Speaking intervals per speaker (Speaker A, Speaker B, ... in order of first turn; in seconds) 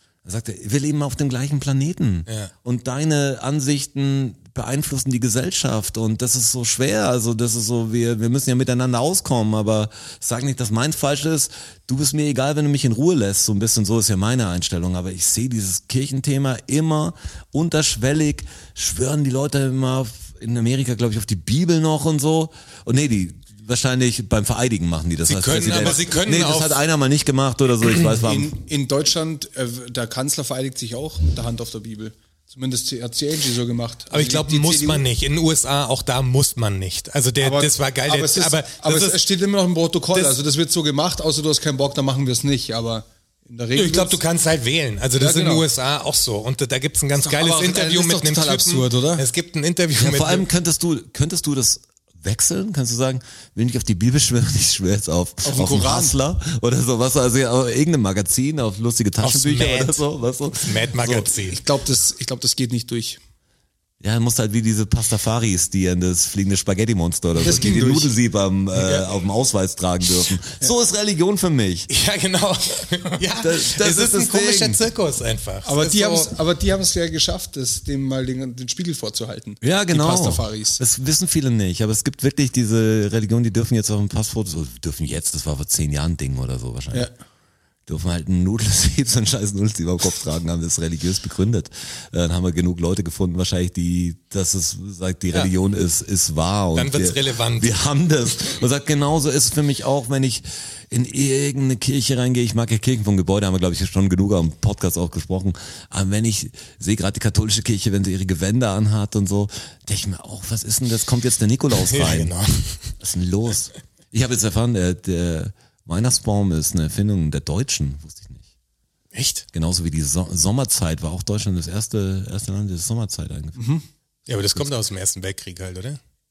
Speaker A: 0.2-28.6, 50.0-61.3, 64.0-71.9, 73.3-74.8, 79.6-87.1, 87.9-112.3, 113.0-118.4, 119.5-123.6
Speaker B: 2.3-2.5, 25.3-26.8, 34.1-39.2, 43.8-50.5, 59.2-60.0, 60.5-61.6, 71.9-76.3, 96.8-97.9, 111.7-112.9, 119.1-119.5, 124.3-126.0
Speaker C: 28.2-35.1, 37.4-44.2, 45.2-45.7, 47.2-49.3, 55.4-56.2, 61.5-63.2, 67.3-68.1, 75.6-80.8, 123.6-123.8